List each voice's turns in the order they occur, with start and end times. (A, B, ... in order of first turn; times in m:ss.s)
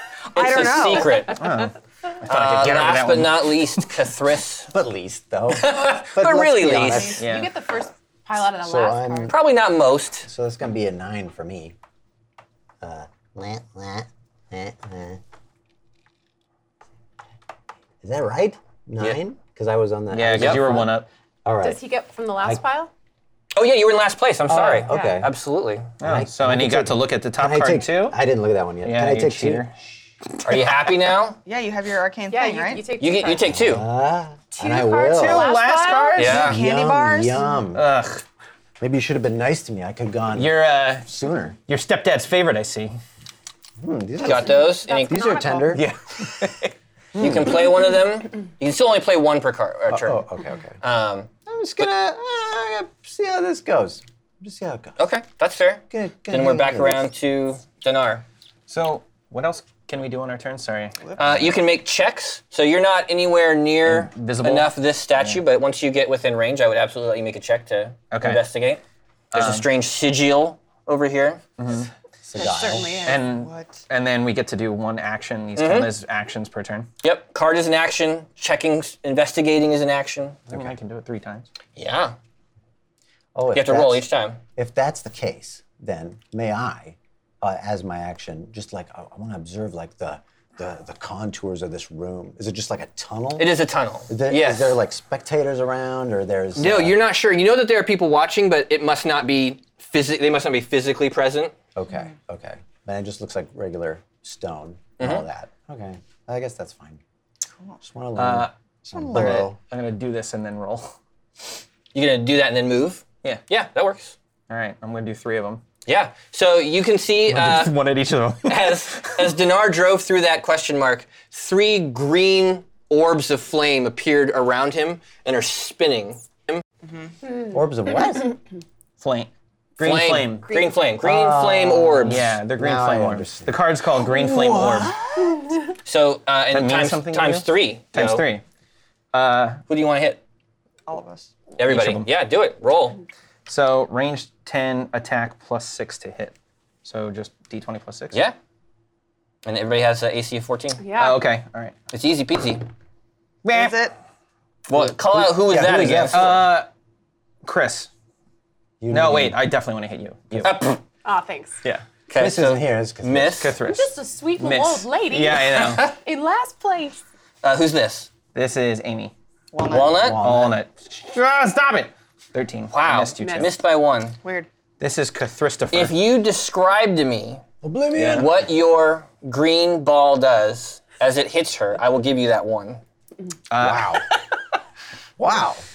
0:00.3-0:01.3 A
0:00.4-0:01.4 B
0:01.3-0:03.8 C
0:02.2-0:04.7 B
0:04.7-0:07.2 D
0:05.5-0:07.1 B
0:06.8-0:09.4 E
0:07.2-0:07.5 C
0:08.6-0:09.4 D
0:09.3-0:10.3 B
0:10.2-0:11.7 D
0:12.8-0:15.2 D
0:18.0-0:21.8 D
0:20.1-0:21.1 C
0:20.4-0:20.6 B
0:21.6-0:22.9 E
0:23.5-0:25.9 B
0:24.5-0:25.3 D
0:24.9-0:25.2 E
0:26.0-0:28.2 C
0:26.0-0:29.7 D
0:28.8-0:29.7 C
0:30.4-0:31.4 B
0:31.4-0:32.8 A
0:32.3-0:33.5 E
0:33.0-0:33.8 B
0:33.5-0:35.5 D
0:34.5-0:36.4 E
0:35.1-0:36.5 C
0:36.2-0:36.6 B
0:36.2-0:37.5 A
0:36.4-0:37.8 D
0:37.7-0:38.2 C
0:38.8-0:41.6 D
0:40.4-0:41.1 C
0:41.7-0:42.9 C
0:43.8-0:45.9 D
0:44.2-0:45.5 B
0:44.5-0:45.8 E
0:45.7-0:46.7 C
0:47.2-0:47.4 D
0:47.2-0:50.2 B
0:49.9-0:50.8 D
0:50.8-0:51.3 B
0:51.4-0:55.0 D
0:55.0-0:58.2 B
0:55.9-0:57.1 D
0:58.7-1:01.2 C
1:01.0-1:01.5 A
1:01.2-1:08.8 B
1:03.8-1:05.4 C
1:08.1-1:08.4 C
1:09.3-1:11.4 B
1:09.3-1:09.7 C
1:11.6-1:11.9 C
1:12.2-1:13.1 D
1:12.4-1:13.2 E
1:12.6-1:13.8 A
1:13.0-1:16.9 C
1:15.6-1:15.9 B
1:17.0-1:20.4 B
1:20.5-1:21.5 C
1:20.5-1:20.8 D
1:21.8-1:22.1 B
1:23.4-1:33.5 D
1:23.5-1:24.4 B
1:33.4-1:34.8 B
1:34.1-1:37.0 D
1:36.6-1:41.5 B
1:41.7-1:47.0 D
1:45.0-1:45.2 B
1:47.8-1:49.6 D
1:48.2-1:48.5 C
1:48.9-1:49.5 A
1:49.2-1:50.9 C
1:51.9-1:54.2 B
1:54.5-1:55.6 C
1:55.9-1:57.8 B
1:57.2-1:59.3 C
1:58.4-2:06.6 B
2:06.8-2:07.1 A
2:07.5-2:08.4 D
2:09.0-2:10.5 C
2:09.8-2:12.3 B
2:11.0-2:15.5 D
2:12.0-2:15.0 C
2:15.9-2:18.2 B
2:16.5-2:18.4 C
2:19.1-2:19.6 C
2:19.7-2:20.2 B
2:20.9-2:21.3 A
2:21.6-2:23.0 B
2:21.7-2:22.1 C
2:23.4-2:28.2 C
2:29.4-2:30.8 B
2:30.8-2:31.2 E
2:30.9-2:31.7 C
2:31.9-2:32.6 B
2:33.4-2:33.7 C
2:33.5-2:33.9 A
2:34.7-2:36.4 B
2:35.1-2:36.4 D
2:36.1-2:36.7 C
2:37.4-2:37.9 C
2:38.8-2:39.4 D
2:38.9-2:40.8 C
2:40.4-2:40.8 B
2:41.0-2:41.6 E
2:42.1-2:43.6 B
2:42.2-2:43.5 D
2:43.4-2:45.9 C
2:43.7-2:47.0 E
2:47.4-2:48.1 B
2:48.3-2:49.1 C
2:49.5-2:50.2 A
2:49.7-2:50.2 B
2:49.7-2:50.6 D
2:50.2-2:53.5 C
2:52.7-2:54.2 B
2:53.2-2:53.5 E
2:54.2-2:54.5 A
2:54.8-2:56.0 C
2:55.7-2:57.4 B
2:57.6-2:58.4 D
2:57.9-2:58.3 C
2:58.0-3:02.8 B
3:03.5-3:04.0 C
3:03.6-3:04.0 D
3:05.2-3:05.6 D